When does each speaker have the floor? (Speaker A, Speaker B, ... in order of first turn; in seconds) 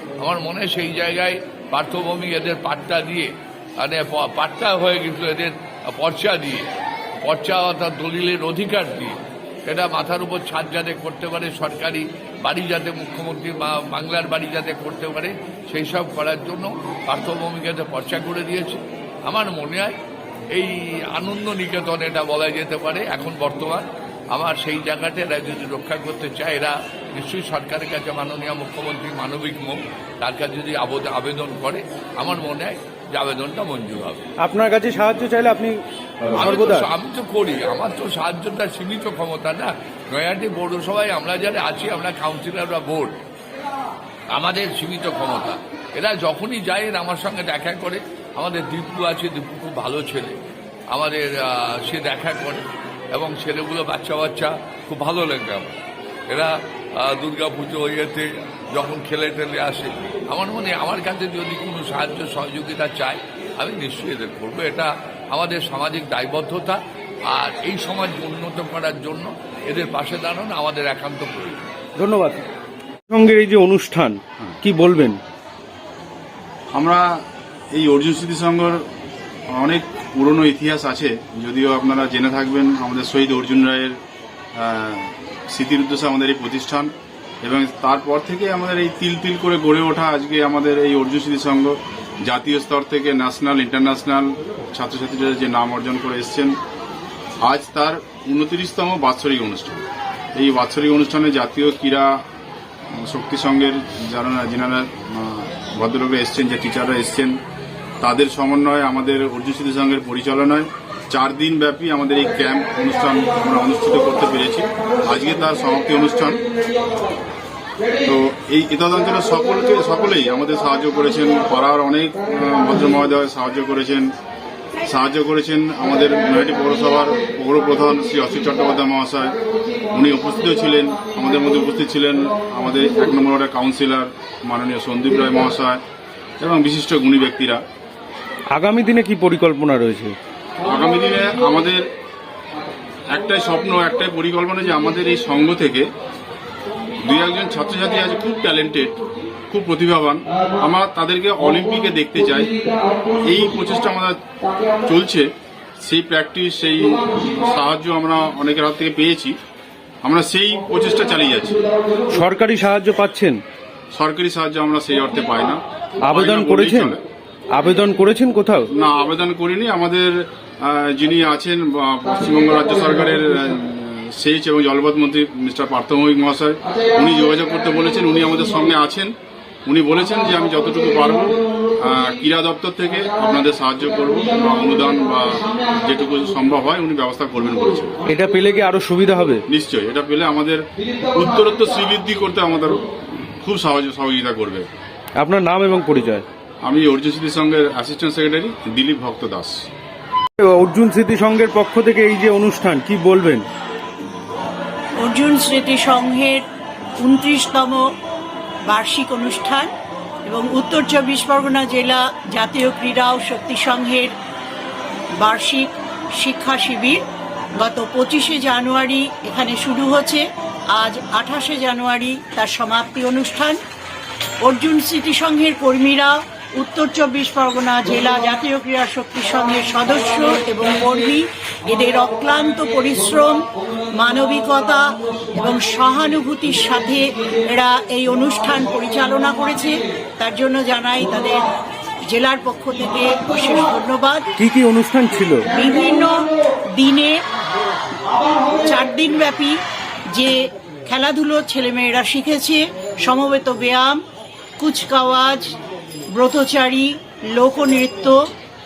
Speaker A: 0.2-19.9, 20.5-34.2, 36.4-43.1, 44.3-50.4, 50.9-52.6, 53.1-55.8, 56.3-71.7
Speaker B: 34.4-36.9, 72.0-72.4, 73.1-75.2, 138.5-140.2, 162.1-163.4, 166.0-167.0, 167.5-168.7, 188.1-189.4, 195.2-196.3, 200.4-203.4, 244.4-245.5
Speaker C: 76.7-77.2, 77.7-78.8, 79.6-84.0, 84.6-86.9, 87.4-96.6, 97.4-99.8, 100.4-102.1, 102.9-107.4, 108.0-116.4, 118.0-124.1, 124.8-129.4, 129.9-135.8, 136.4-137.6, 140.6-141.9, 143.1-145.9, 147.0-152.6, 153.1-154.2, 154.8-159.4, 160.0-161.6, 163.9-167.0, 168.7-179.1, 179.7-187.9, 189.5-192.8, 193.4-194.7, 196.6-199.5
Speaker D: 205.0-206.4, 207.0-207.8, 208.7-209.7, 210.3-214.1, 215.2-217.0, 217.6-220.2, 220.8-223.6, 224.4-241.5, 242.1-244.3, 245.5-247.2, 248.3-249.6, 250.1-254.0, 254.6-255.6, 256.1-258.3